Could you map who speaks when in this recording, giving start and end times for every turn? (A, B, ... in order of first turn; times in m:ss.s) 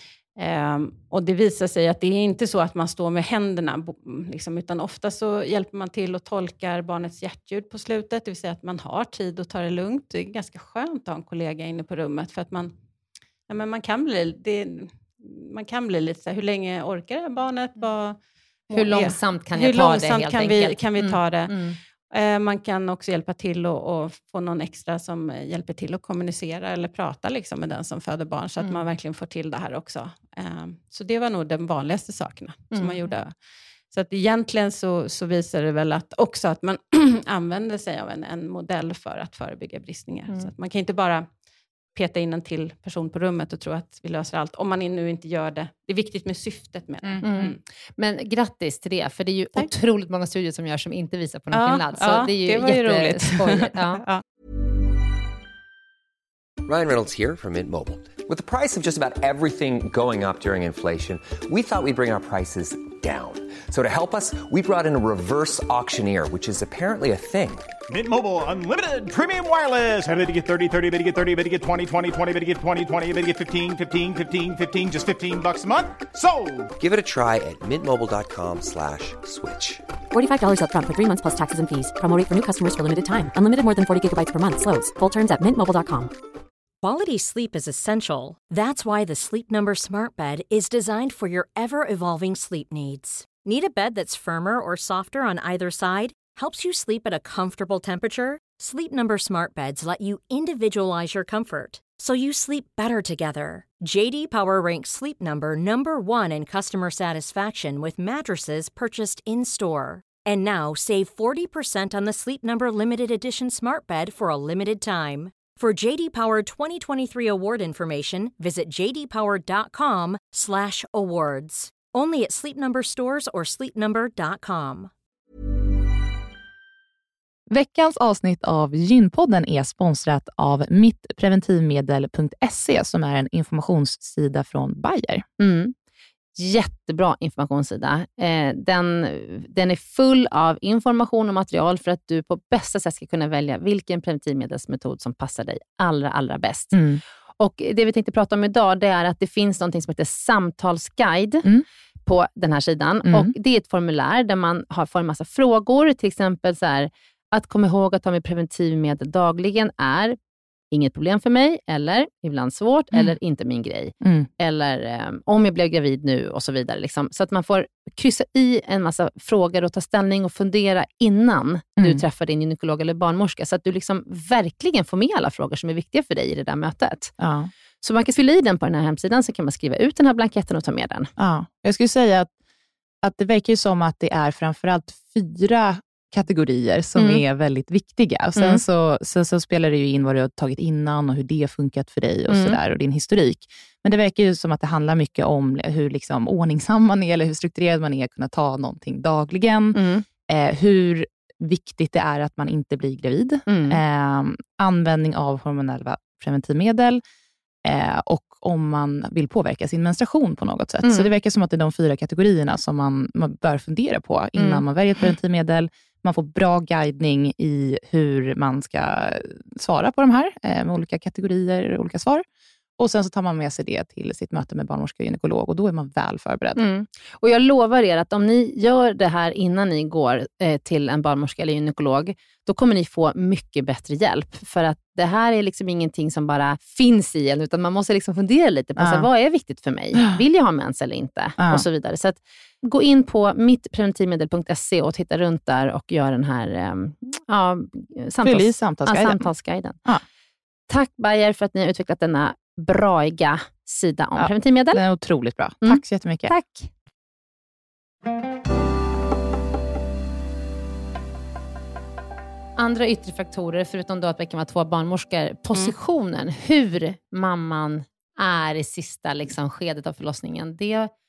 0:00.4-0:12.7 A
0:13.5-0:21.6 A
0:18.7-0:21.8 B
0:22.1-0:33.3 A
0:32.7-0:33.1 B
0:33.9-0:41.3 A
0:41.9-0:47.6 A
0:47.0-0:47.5 C
0:47.2-0:54.0 B
0:51.5-0:54.2 A
0:56.6-1:07.7 D
1:07.9-1:16.7 E
1:16.8-1:19.8 D
1:20.1-1:26.1 F
1:26.8-2:04.9 G
2:07.5-2:15.2 C
2:15.4-2:15.8 B
2:16.4-2:26.8 B
2:26.7-2:27.0 C
2:27.4-2:31.5 B
2:32.1-2:40.2 B
2:33.1-2:33.3 C
2:40.7-2:57.1 B
2:44.0-2:44.3 C
2:51.8-2:52.0 C
2:57.2-2:57.5 C
2:57.8-3:01.1 B
3:01.2-3:02.3 C
3:03.0-3:27.0 C
3:07.0-3:07.2 B
3:08.4-3:08.6 B
3:12.3-3:12.6 B
3:19.8-3:20.0 B
3:23.5-3:23.8 B
3:27.6-3:42.2 C
3:30.8-3:31.1 B
3:34.4-3:34.6 B
3:42.8-3:46.6 C
3:46.6-4:09.8 B
3:58.8-3:59.1 C
4:01.4-4:01.6 C
4:08.2-4:09.3 C
4:10.7-4:14.8 B
4:14.2-4:16.3 C
4:15.6-4:16.7 B
4:22.6-4:30.9 B